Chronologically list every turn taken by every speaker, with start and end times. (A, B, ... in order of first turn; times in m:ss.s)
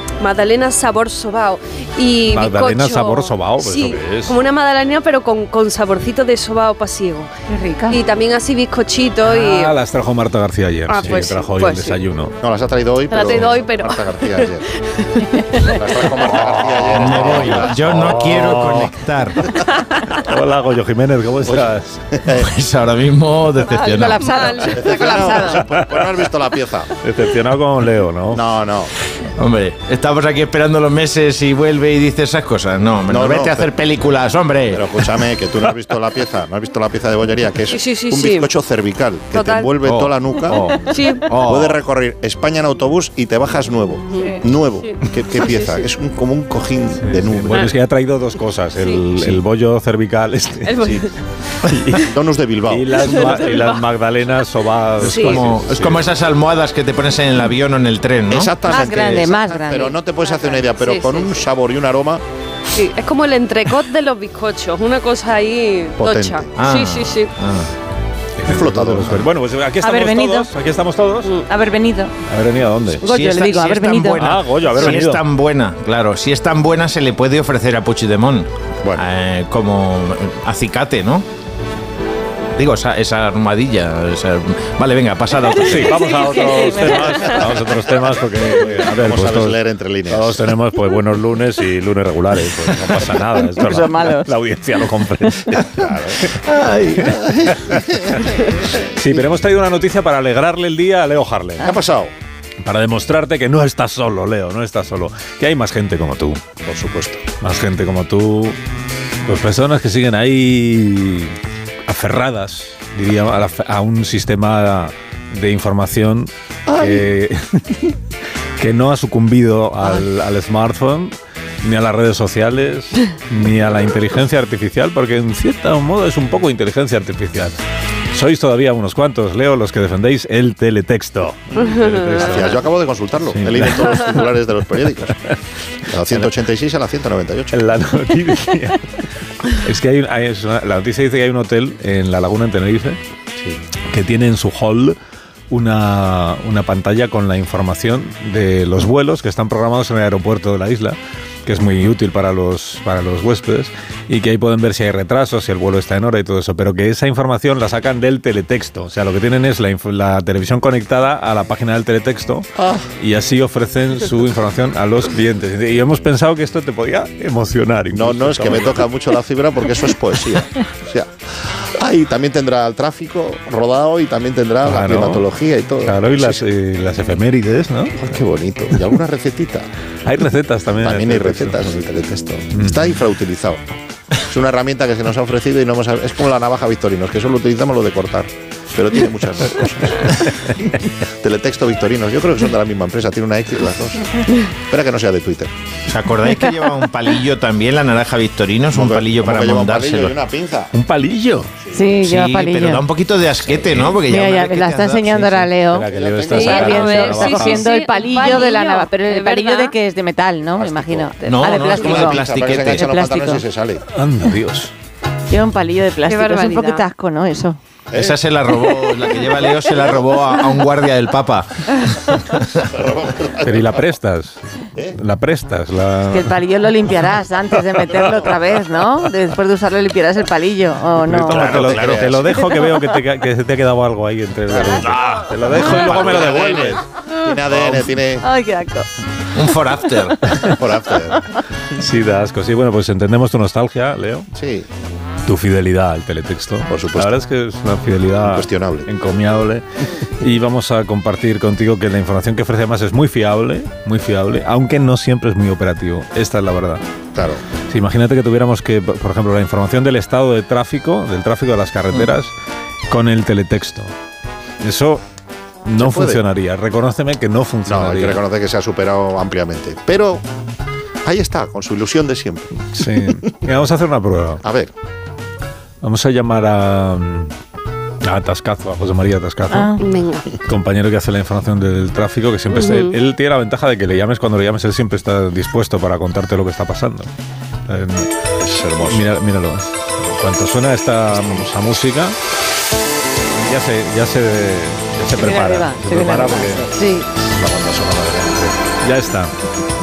0:00.2-0:07.3 A
0:02.3-0:04.4 B
0:07.5-0:08.0 C
0:07.9-0:09.7 A
0:09.2-0:12.3 B
0:10.9-0:12.0 A
0:12.4-0:14.6 D
0:13.1-0:16.1 A
0:15.4-0:15.7 C
0:15.6-0:18.1 D
0:16.4-0:19.5 E
0:17.1-0:18.9 B
0:20.1-0:21.9 B
0:21.4-0:22.5 D
0:22.3-0:24.7 E
0:23.6-0:25.6 A
0:23.9-0:25.6 C
0:24.7-0:26.9 D
0:25.7-0:26.1 B
0:27.0-0:28.4 B
0:28.3-0:28.9 D
0:29.3-0:35.3 E
0:33.1-0:33.7 D
0:34.7-0:40.7 D
0:37.7-0:38.5 A
0:39.3-0:39.7 A
0:39.8-0:41.8 E
0:40.8-0:41.2 A
0:41.4-0:47.6 D
0:44.1-0:45.8 A
0:47.0-0:51.0 B
0:48.8-0:49.0 A
0:50.7-0:51.1 A
0:51.7-0:52.1 B
0:51.9-0:53.3 D
0:52.7-0:56.1 B
0:53.2-0:53.8 A
0:55.0-0:59.2 E
0:55.0-0:55.4 A
0:58.3-1:02.2 D
0:58.7-0:59.9 C
1:00.2-1:01.4 A
1:02.7-1:07.3 A
1:06.0-1:06.5 D
1:06.6-1:07.7 E
1:08.4-1:11.4 B
1:08.4-1:09.3 D
1:09.8-1:10.5 C
1:11.4-1:12.1 C
1:12.3-1:13.0 B
1:13.0-1:21.3 E
1:13.0-1:14.9 C
1:14.2-1:15.2 B
1:22.6-1:26.1 E
1:25.4-1:27.6 C
1:25.6-1:29.6 B
1:28.9-1:30.4 D
1:30.1-1:36.3 B
1:33.5-1:34.3 C
1:35.7-1:36.2 D
1:36.4-1:37.1 E
1:37.0-1:38.2 D
1:37.5-1:41.8 B
1:41.6-1:42.1 D
1:42.6-1:46.4 B
1:46.6-1:47.3 D
1:47.4-1:48.6 B
1:49.2-1:51.4 B
1:51.9-1:58.0 B
1:56.7-1:57.0 D
1:58.6-2:07.5 B
2:08.1-2:12.6 B
2:11.6-2:12.0 A
2:12.1-2:15.2 D
2:13.3-2:14.4 B
2:15.8-2:17.6 D
2:17.5-2:23.0 B
2:23.9-2:25.0 B
2:25.5-2:42.5 B
2:42.6-2:42.9 D
2:43.0-2:48.8 B
2:47.9-2:56.4 D
2:54.6-2:55.2 B
2:55.8-2:58.0 B
2:58.0-2:59.7 D
3:00.0-3:01.8 B
3:00.8-3:03.6 D
3:02.5-3:02.8 B
3:04.3-3:10.3 D
3:11.1-3:15.5 D
3:15.9-3:20.1 E
3:18.7-3:20.7 D
3:20.7-3:21.6 B
3:21.7-3:22.8 C
3:22.0-3:25.5 E
3:24.0-3:33.4 C
3:25.7-3:27.7 B
3:25.9-3:26.7 D
3:26.3-3:29.7 A
3:30.6-3:31.1 D
3:31.2-3:33.0 E
3:31.7-3:33.8 D
3:33.9-3:34.7 B
3:35.3-3:37.6 C
3:36.1-3:36.8 A
3:37.9-3:39.9 D
3:37.9-3:42.6 E
3:42.6-3:43.8 D
3:43.4-3:44.4 B
3:44.9-3:46.3 B
3:46.1-3:51.5 C
3:51.0-3:56.8 B
3:51.3-3:52.2 E
3:51.3-3:52.3 D
3:52.4-3:52.8 C
3:54.5-3:58.2 D
3:54.8-3:56.5 E
3:55.7-3:56.3 C
3:58.2-3:58.9 C
3:59.3-4:00.3 E
4:00.3-4:01.2 D
4:01.7-4:04.3 B
4:04.3-4:04.7 D
4:05.2-4:09.6 B
4:06.7-4:07.2 D
4:08.2-4:08.9 D
4:10.2-4:16.8 B
4:17.1-4:17.4 D
4:17.7-4:22.3 B
4:22.9-4:23.9 B
4:24.6-4:25.0 B
4:25.6-4:28.2 B
4:25.8-4:26.2 D
4:27.6-4:30.2 D
4:31.0-4:32.7 D
4:32.7-4:34.4 B
4:34.4-4:34.7 D
4:35.8-4:37.3 B
4:38.0-4:39.8 B
4:39.5-4:39.8 C
4:39.8-4:40.3 A
4:40.4-4:47.1 B
4:42.5-4:43.0 A
4:47.7-4:48.1 B
4:48.4-4:49.0 D
4:48.8-4:52.2 B
4:53.4-4:59.3 B
4:55.1-4:57.1 C